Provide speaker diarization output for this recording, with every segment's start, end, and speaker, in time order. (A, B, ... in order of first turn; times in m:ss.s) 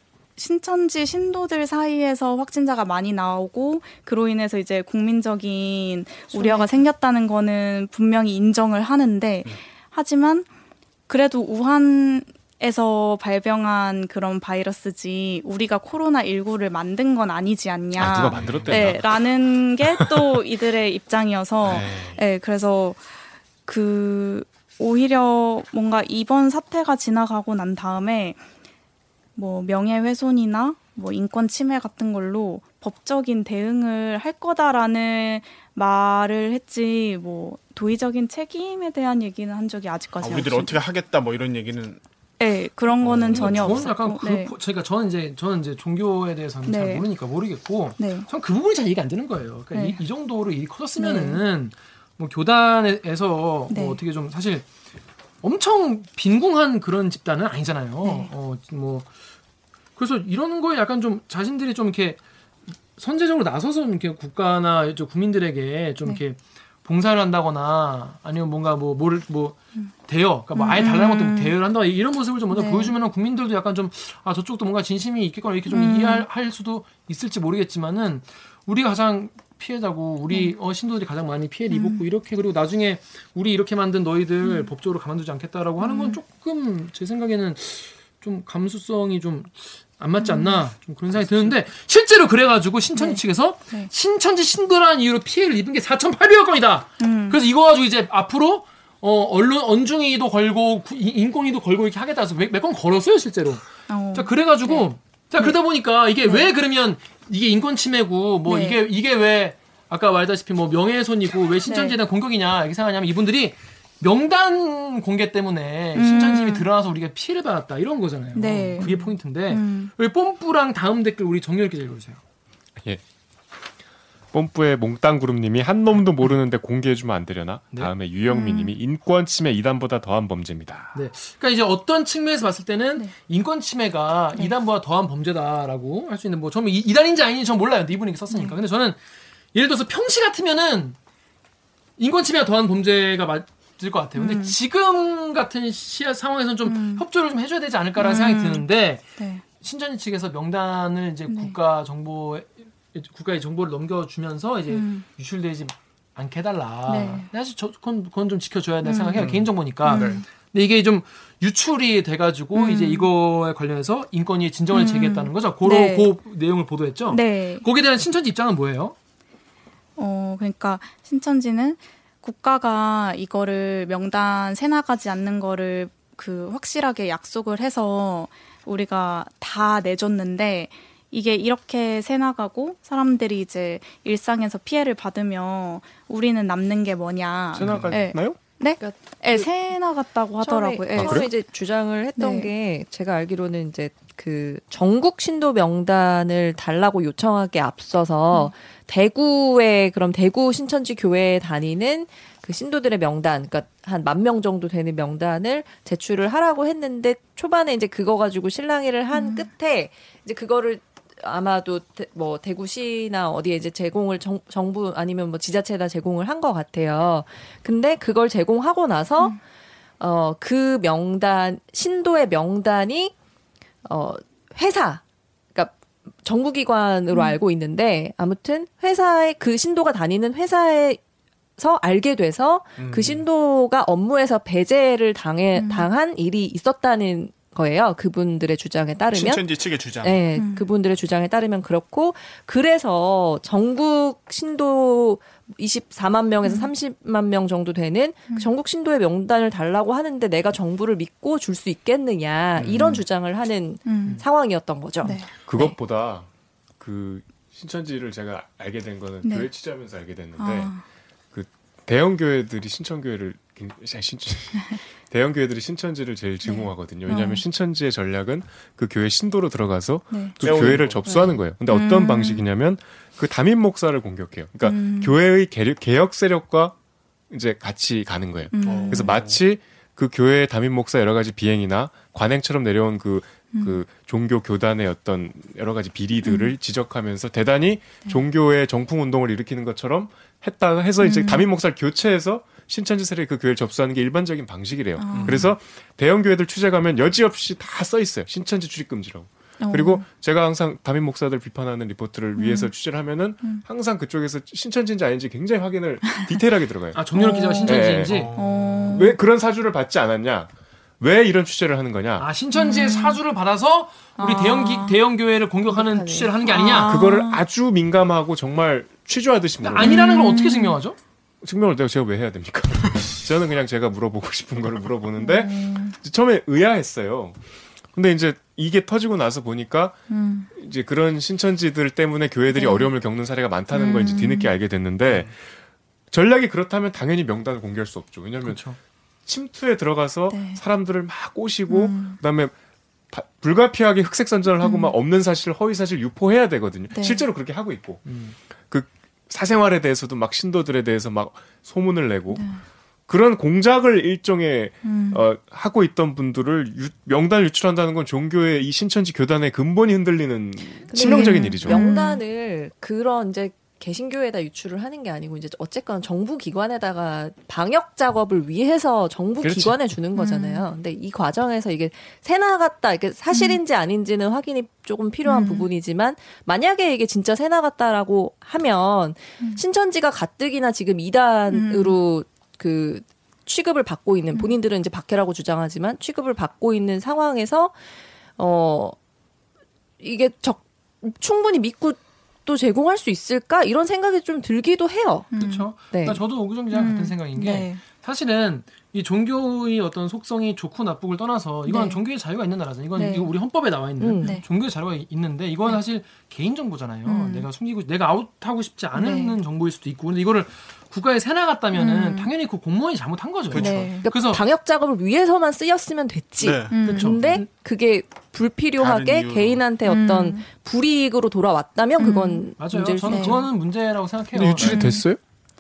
0:00.4-0:10.5 A
0:06.3-0:06.8 B
0:11.1-0:23.0 A
0:18.0-0:19.1 C
0:18.3-0:18.9 D
0:21.6-0:22.2 C
0:23.7-0:28.4 A
0:29.4-0:40.8 A
0:40.2-0:42.0 D
0:42.4-0:44.5 A
0:43.0-0:43.9 D
0:43.3-0:54.7 E
0:46.7-0:47.1 A
0:48.0-0:48.3 A
0:49.7-0:50.0 A
0:51.0-0:51.4 A
0:53.7-0:54.0 A
0:55.4-0:59.1 E
0:58.0-0:58.3 A
1:00.0-1:02.2 E
1:02.9-1:43.6 E
1:10.6-1:11.6 A
1:12.5-1:12.9 A
1:15.7-1:16.3 A
1:20.3-1:20.6 A
1:21.7-1:22.0 A
1:24.4-1:24.7 A
1:25.8-1:26.2 A
1:30.2-1:30.6 A
1:33.0-1:33.9 A
1:37.0-1:37.4 A
1:43.9-1:45.6 A
1:44.1-2:02.2 E
1:48.5-1:48.8 A
1:51.6-1:52.0 A
1:56.0-1:56.7 A
1:58.4-1:59.9 A
2:04.3-2:11.0 C
2:08.3-2:08.7 A
2:10.9-2:19.0 E
2:18.3-2:18.6 A
2:19.5-2:21.0 E
2:22.0-2:29.0 E
2:24.2-2:24.6 A
2:26.6-2:27.0 A
2:28.0-2:28.7 A
2:29.2-2:29.4 A
2:29.6-2:49.0 E
2:31.3-2:31.6 A
2:34.7-2:35.1 A
2:36.9-2:37.3 A
2:38.8-2:39.3 A
2:39.2-2:40.2 D
2:39.8-2:40.2 A
2:42.5-2:43.1 A
2:44.7-2:46.2 A
2:47.1-2:47.7 A
2:50.0-3:11.3 A
3:07.5-3:08.4 C
3:08.8-3:09.5 B
3:10.4-3:39.4 B
3:11.0-3:11.3 C
3:12.2-3:12.5 A
3:29.1-3:29.5 A
3:40.0-3:43.1 B
3:43.8-3:45.0 B
3:45.5-3:51.0 B
3:47.1-3:47.4 A
3:51.6-3:59.5 B
3:52.8-3:53.2 D
3:55.5-3:55.9 A
3:59.1-4:00.2 D
4:00.0-4:15.3 B
4:00.4-4:00.7 A
4:06.4-4:06.7 A
4:13.8-4:14.2 A
4:15.0-4:15.7 A
4:15.4-4:16.3 C
4:16.8-4:20.7 C
4:19.2-4:19.5 A
4:20.4-4:20.8 A
4:21.3-4:36.8 C
4:26.4-4:27.4 A
4:30.1-4:30.4 A
4:30.4-4:31.3 D
4:31.7-4:32.4 A
4:34.6-4:35.2 A
4:37.3-5:07.0 C
4:38.5-4:39.2 A
4:38.6-4:39.4 D
4:43.5-4:43.8 A
4:46.2-4:46.5 A
4:51.0-4:51.5 A
4:55.0-4:55.5 A
4:55.1-4:55.5 D
4:59.6-5:00.0 A
5:02.4-5:02.7 A
5:06.1-5:06.4 A
5:06.9-5:08.3 E
5:07.1-5:09.2 A
5:07.6-5:08.3 C
5:08.1-5:09.0 D
5:08.9-5:12.3 C
5:12.2-5:16.9 E
5:12.6-5:13.2 A
5:14.2-5:15.0 A
5:15.7-5:16.3 B
5:16.5-5:17.4 A
5:16.7-5:20.0 C
5:19.6-5:21.0 E
5:19.8-5:20.8 A
5:21.4-5:27.4 C
5:25.2-5:26.0 A
5:27.9-5:35.5 C
5:30.1-5:30.5 A
5:32.5-5:32.9 A
5:33.7-5:34.5 A
5:36.1-5:38.7 C
5:38.4-5:38.8 E
5:39.3-5:42.5 C
5:40.3-5:40.6 A
5:41.7-5:42.2 A
5:43.1-5:48.1 C
5:44.6-5:44.9 A
5:46.9-5:47.2 A
5:48.1-5:48.4 E
5:48.7-5:52.5 C
5:52.3-5:52.6 A
5:53.1-6:01.8 C
5:54.8-5:55.3 A
6:00.9-6:27.7 B
6:01.0-6:02.2 A
6:09.4-6:09.8 C
6:10.2-6:10.6 A
6:13.3-6:13.6 A
6:15.2-6:15.7 A
6:21.5-6:22.0 A
6:28.4-6:29.0 B
6:30.0-6:36.2 B
6:35.3-6:35.7 A
6:35.4-6:54.4 E
6:36.7-6:37.8 A
6:41.7-6:42.0 A
6:43.0-6:43.3 A
6:44.0-6:44.4 B
6:44.2-6:44.4 A
6:47.1-6:47.5 A
6:49.0-6:49.4 A
6:51.8-6:52.3 A
6:53.5-6:54.0 D
6:53.6-6:54.1 A
6:54.0-7:03.5 B
6:56.4-6:57.4 D
6:56.7-6:57.4 A
6:56.8-6:57.2 E
6:58.8-6:59.6 D
6:59.9-7:00.4 A
7:02.0-7:02.5 A
7:02.6-7:04.8 E
7:03.0-7:03.4 A
7:04.4-7:05.2 C
7:04.6-7:05.1 A